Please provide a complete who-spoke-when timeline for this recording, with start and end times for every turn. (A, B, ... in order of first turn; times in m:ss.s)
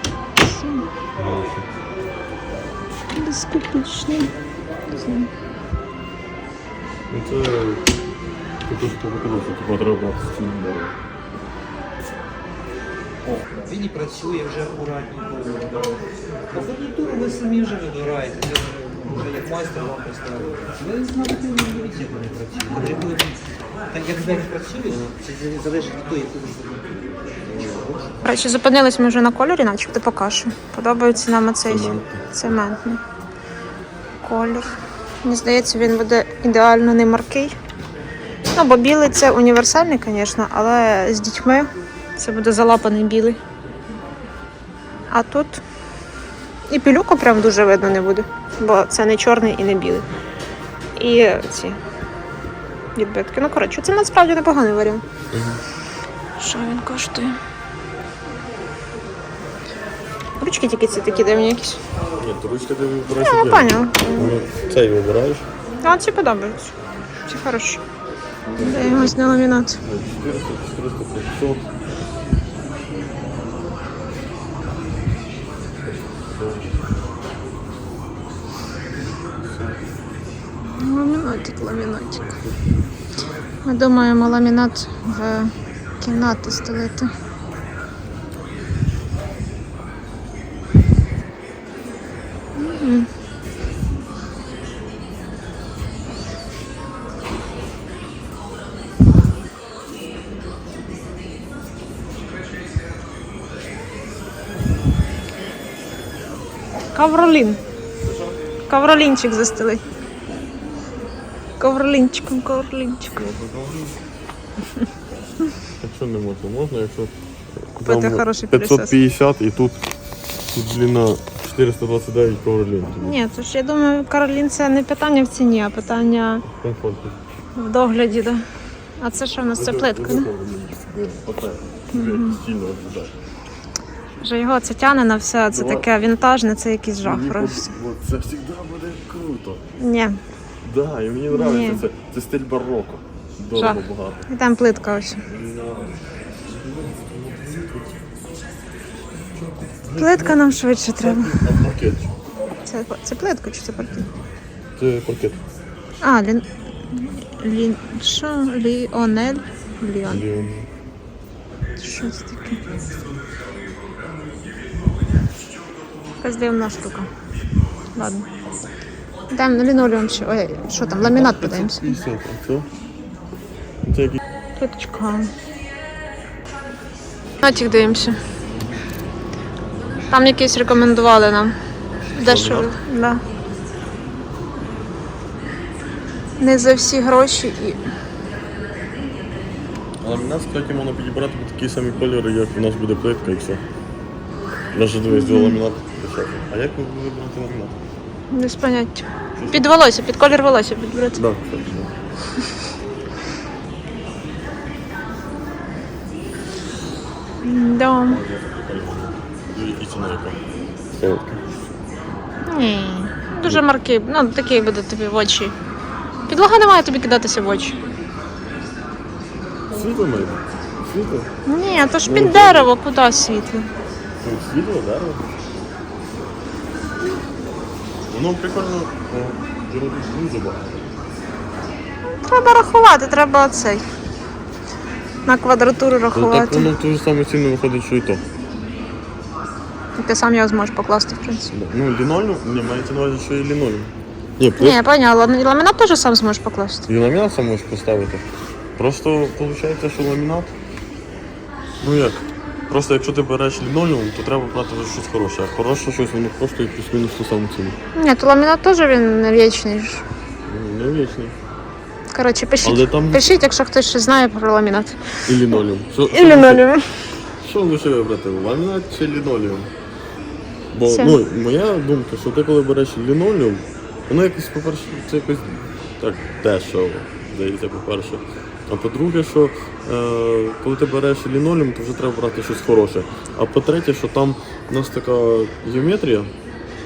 0:00.4-0:00.9 A
0:01.2-0:01.7 B
0:03.1-0:04.3 A
0:04.9-0:05.3 A
0:07.1-0:07.8 B
0:08.7-0:10.9 B
0:13.2-0:23.4 C
0:23.9-0:28.0 C
0:28.2-0:33.0 A
0:31.6-0:32.2 B
0:34.2-0:34.7 A
0:35.2-0:37.6 A
0:38.6-0:43.4 A
0:45.1-0:45.6 A
0:46.7-0:50.1 A
0:51.0-0:51.8 A
0:53.0-0:55.0 A
0:55.3-0:55.6 B
0:56.4-0:57.4 A
1:00.4-1:01.8 A
1:02.2-1:05.4 B
1:03.2-1:04.3 A
1:05.8-1:06.7 A
1:07.3-1:07.8 A
1:08.4-1:11.7 B
1:08.6-1:09.8 A
1:15.8-1:16.7 B
1:19.4-1:19.8 B
1:20.7-1:22.3 A
1:23.6-1:27.1 A
1:32.6-1:33.1 A
1:46.9-1:47.6 A
1:48.0-1:48.3 B
1:48.7-1:49.8 A
1:51.6-1:53.2 A
1:53.1-1:54.0 B
1:55.8-1:57.1 B
1:57.7-1:59.8 B
1:57.8-1:58.9 A
2:00.5-2:03.2 B
2:03.0-2:06.4 A
2:06.5-2:07.2 B
2:07.6-2:08.4 A
2:09.0-2:10.3 A
2:09.6-2:13.1 B
2:11.9-2:12.4 A
2:14.2-2:17.7 A
2:15.5-2:15.9 B
2:17.0-2:19.6 B
2:19.8-2:20.2 A
2:20.6-2:24.3 B
2:21.3-2:21.8 A
2:23.6-2:25.2 A
2:25.3-2:28.0 B
2:29.4-2:30.4 B
2:30.0-2:31.4 A
2:31.0-2:32.1 B
2:32.6-2:34.1 A
2:34.8-2:35.4 B
2:36.0-2:40.2 A
2:40.1-2:40.7 B
2:41.8-2:42.6 A
2:46.2-2:47.1 A
2:48.0-2:48.2 A
2:49.3-2:51.9 A
2:51.0-2:52.7 B
2:53.8-2:54.2 B
2:54.6-2:55.3 A
2:57.4-2:58.2 A
3:00.1-3:01.5 A
3:02.1-3:03.2 A
3:02.2-3:02.8 B
3:06.4-3:07.8 A
3:10.0-3:13.6 B
3:14.7-3:17.7 B
3:15.1-3:15.6 A
3:18.3-3:21.2 A
3:19.4-3:19.7 B
3:21.2-3:21.9 B
3:27.4-3:28.2 A
3:28.0-3:30.4 B
3:31.0-3:31.4 B
3:32.5-3:35.6 A
3:36.3-3:37.8 A
3:39.7-3:41.3 B
3:41.5-3:43.7 A
3:42.0-3:42.7 B
3:44.2-3:45.4 B
3:48.1-3:50.7 B
3:52.2-3:53.8 A
3:55.2-3:56.7 A
3:56.1-3:58.2 B
4:00.0-4:01.5 A
4:01.5-4:04.8 B
4:04.6-4:06.9 A
4:06.9-4:08.2 B
4:08.8-4:10.5 B
4:11.8-4:17.8 B
4:17.9-4:20.0 A
4:20.5-4:21.4 B
4:22.1-4:25.6 A
4:22.6-4:23.3 B
4:25.3-4:26.7 B
4:26.1-4:26.9 A
4:27.4-4:29.7 B
4:30.7-4:46.3 B
4:30.9-4:31.2 A